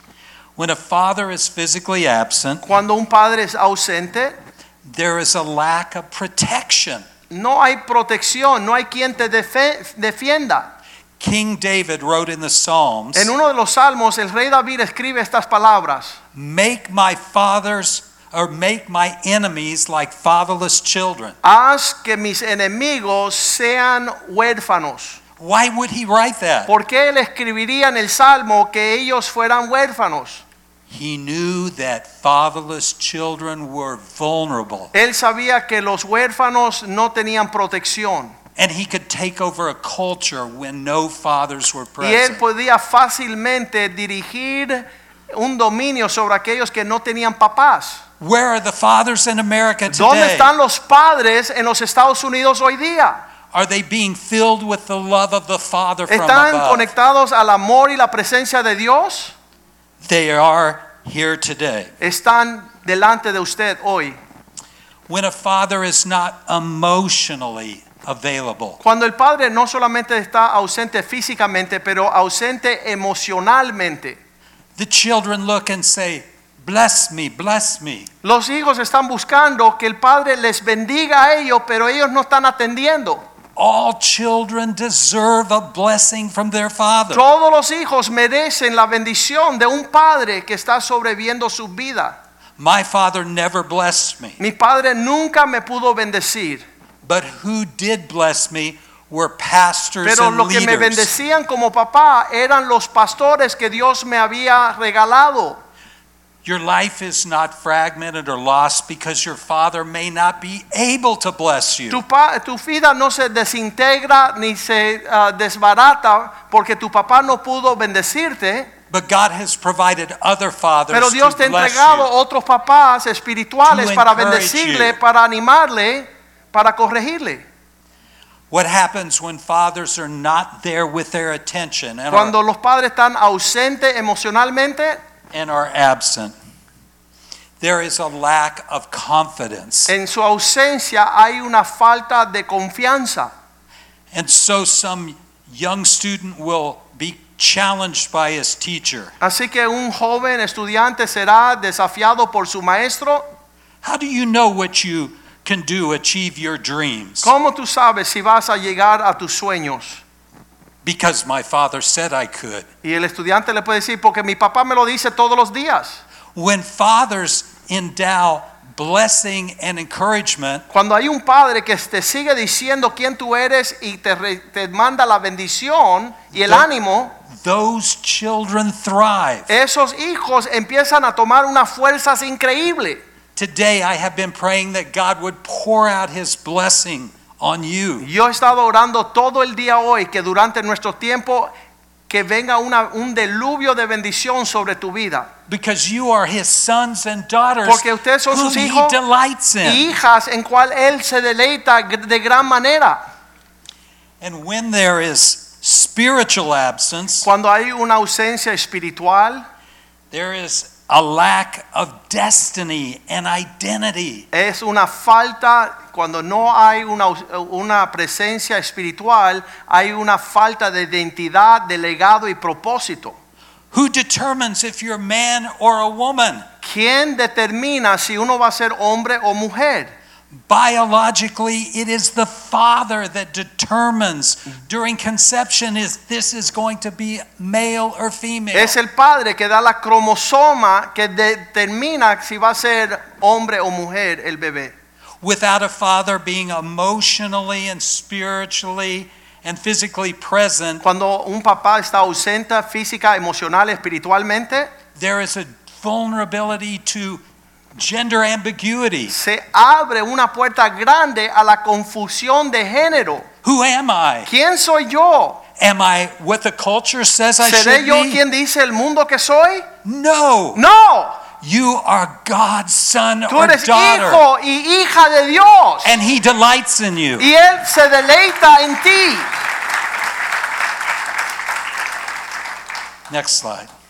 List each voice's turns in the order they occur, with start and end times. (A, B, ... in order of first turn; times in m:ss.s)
0:00.6-0:02.6 A
0:02.6-0:04.4 B
0:04.8-0:07.0 A
0:07.3-0:10.7 B
0:11.2-0:13.3 A
0:13.1-0:16.2 B
0:16.3-0:21.4 A
0:21.4-0:25.2 B
0:25.4-0:26.7 A
0:26.7-0:30.4 B
0:30.9-0:34.9 A
0:34.9-0:38.3 B
0:38.6-0:42.4 A
0:42.0-0:48.0 B
0:48.2-0:50.5 A
0:49.9-0:53.2 B
0:53.5-0:56.9 A
0:56.1-0:59.3 B
1:00.0-1:01.9 A
1:02.0-1:04.2 B
1:05.1-1:08.8 A
1:08.8-1:14.2 B
1:14.8-1:18.1 A
1:18.2-1:23.2 B
1:23.6-1:27.2 A
1:27.1-1:32.2 B
1:32.6-1:34.4 A
1:34.4-1:36.6 B
1:37.0-1:41.1 A
1:40.0-1:45.6 B
1:46.4-1:52.0 A
1:51.9-1:58.7 B
1:58.9-2:02.1 A
2:00.9-2:07.4 B
2:03.6-2:05.0 A
2:08.5-2:12.3 A
2:12.1-2:15.0 B
2:15.3-2:16.3 A
2:17.6-2:19.9 A
2:19.9-2:23.3 B
2:24.1-2:29.1 A
2:29.2-2:33.2 B
2:33.8-2:37.3 A
2:37.2-2:40.0 B
2:40.8-2:42.7 A
2:42.8-2:46.0 B
2:46.3-2:50.6 A
2:50.7-2:57.1 B
2:57.3-2:59.5 A
2:59.5-3:03.0 B
3:03.4-3:08.1 A
3:08.0-3:11.5 B
3:12.1-3:15.3 B
3:15.5-3:19.9 A
3:17.6-3:19.0 B
3:19.6-3:23.0 B
3:24.2-3:27.3 A
3:27.2-3:29.4 B
3:30.1-3:34.3 A
3:34.3-3:43.2 B
3:43.7-3:46.4 A
3:46.6-3:49.9 B
3:50.3-3:58.8 A
3:58.5-4:04.7 B
4:05.2-4:10.8 A
4:10.8-4:14.7 B
4:15.0-4:17.2 A
4:17.7-4:19.1 A
4:19.1-4:23.3 B
4:23.4-4:24.3 A
4:24.2-4:25.4 B
4:25.6-4:28.2 A
4:27.4-4:29.7 B
4:29.8-4:30.6 A
4:30.5-4:31.2 B
4:31.4-4:34.2 A
4:33.3-4:35.9 B
4:35.8-4:37.3 A
4:37.2-4:39.3 B
4:43.1-4:43.7 A